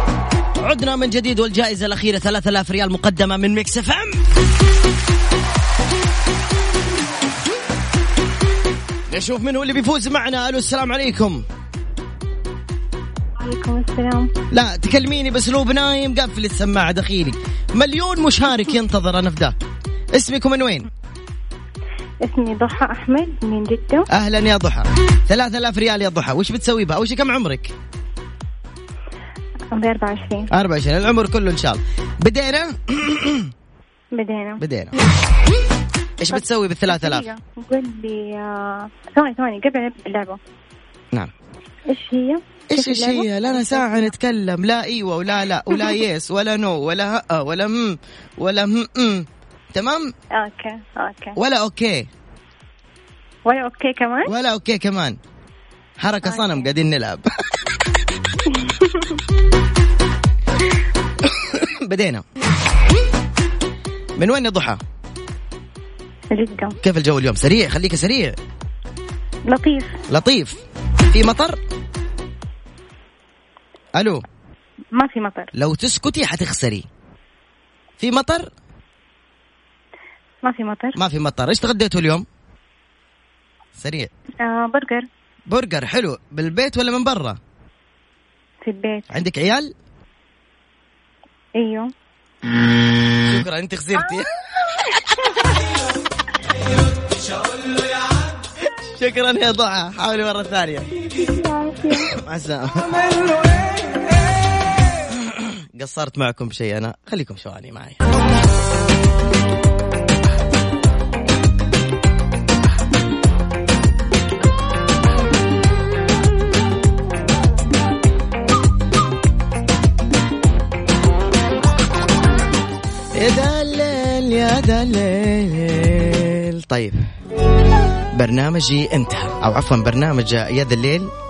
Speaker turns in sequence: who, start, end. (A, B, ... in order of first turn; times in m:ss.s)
0:00.6-0:04.2 A
0:09.1-0:11.4 A
0:13.4-0:14.3 B
0:14.5-0:19.5 A
0:20.1-0:20.9 A
0:22.2-0:24.1 B
0:24.1-0:27.7 A
0:29.7-0:30.5 B
0:30.5-0:33.5 A
0:34.1-0:34.6 B
0:34.6-0:34.9 A
0:36.2-0:37.3 A
0:36.3-0:40.4 B
0:41.9-0:44.1 B
0:42.7-0:50.1 A
0:50.3-0:51.4 B
0:51.4-0:52.1 A
0:53.4-0:54.3 B
0:54.2-0:55.2 A
0:56.0-0:57.2 A
0:56.2-0:56.7 B
1:01.2-1:02.2 A
1:04.2-1:04.8 A
1:06.3-1:06.8 B
1:06.8-1:08.4 A
1:09.5-1:09.9 B
1:10.1-1:10.6 A
1:11.1-1:11.6 A
1:14.0-1:14.2 A
1:14.9-1:15.5 B
1:15.5-1:16.9 A
1:18.0-1:18.5 A
1:20.4-1:21.0 B
1:21.0-1:22.2 A
1:23.8-1:24.1 A
1:24.4-1:25.1 B
1:25.5-1:27.4 A
1:28.6-1:29.1 B
1:29.1-1:29.7 A
1:31.6-1:31.9 B
1:33.2-1:34.3 A
1:38.8-1:40.9 A
1:41.2-1:42.1 B
1:42.0-1:43.0 A
1:45.1-1:48.0 A
2:03.2-2:07.0 A
2:08.1-2:11.1 A